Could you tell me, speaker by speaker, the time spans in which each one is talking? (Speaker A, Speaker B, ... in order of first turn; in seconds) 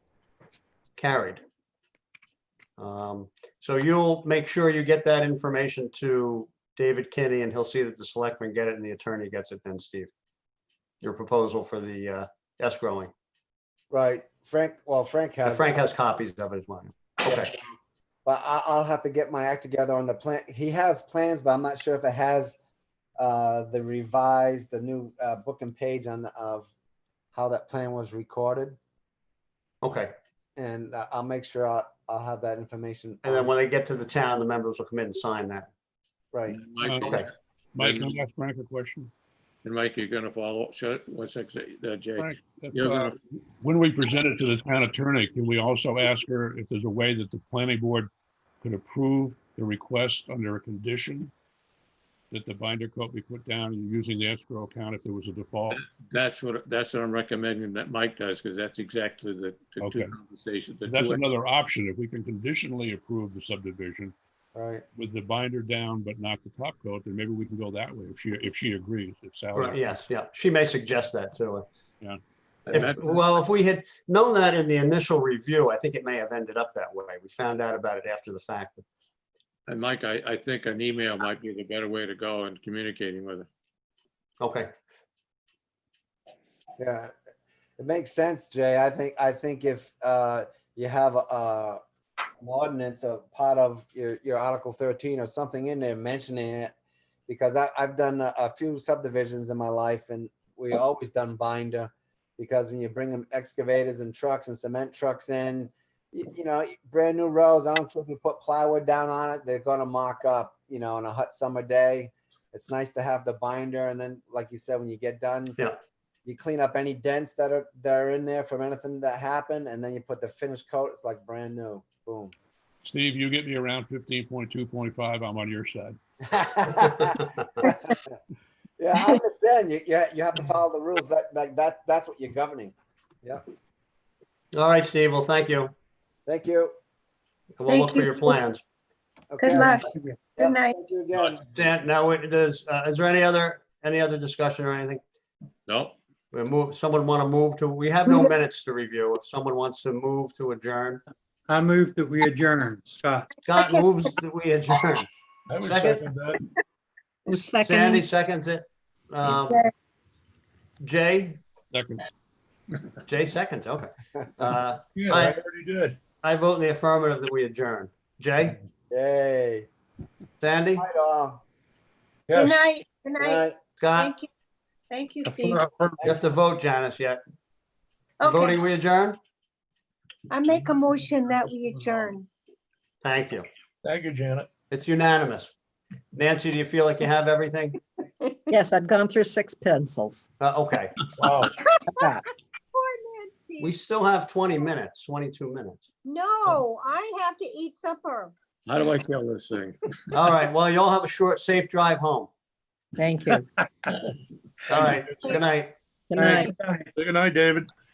Speaker A: 1.0-1.4, 2.8-10.1, 11.0-13.1, 15.4-17.5, 29.8-30.1, 33.2-35.7, 37.0-37.3, 69.5-71.7, 72.7-78.8, 84.4-84.7, 134.5-135.7, 137.6-138.6, 141.5-145.0, 146.3-151.0, 153.4-155.1, 155.6-156.1, 157.5-159.7, 160.8-161.4, 163.1-165.4, 166.2-168.6, 170.4-170.8, 173.8-174.1, 176.0-177.2, 178.2-179.2, 183.0-183.5, 184.7-185.5, 186.1-187.8, 190.4-191.0, 193.6-195.9, 200.1-202.3, 204.7-205.8
Speaker B: 13.9-15.8, 17.2-17.6, 18.2-22.6, 23.2-26.7, 27.3-28.8, 30.6-33.5, 36.3-36.6, 64.5-64.8, 86.8-87.1, 87.8-91.8, 92.4-96.7, 97.3-115.6, 116.2-122.3, 126.3-128.1, 128.8-133.4, 136.2-136.7, 139.3-141.4, 168.9-169.7, 170.8-171.4, 173.2-173.6
Speaker C: 36.5-38.2, 39.6-43.1, 55.7-61.2, 72.7-73.2, 79.7-83.5, 141.1-141.4, 145.7-145.9, 198.7-199.9
Speaker D: 36.8-37.2, 37.7-39.1, 42.2-48.1, 48.6-51.3, 52.3-55.8, 59.8-60.1, 60.8-64.1, 65.0-69.8, 122.8-126.0, 161.7-162.1
Speaker E: 137.7-138.4, 139.4-140.7, 172.3-174.3, 174.9-175.6, 178.2-178.6, 180.3-182.3, 191.6-192.2, 192.7-193.7, 196.0-198.3
Speaker F: 151.5-153.3, 206.2-206.9
Speaker G: 155.5-156.4, 164.9-166.0, 172.3-172.6, 183.8-184.5, 191.2-191.6, 206.9-207.7
Speaker H: 157.3-158.0, 188.5-190.3, 191.9-192.2, 202.9-203.5, 206.1-206.6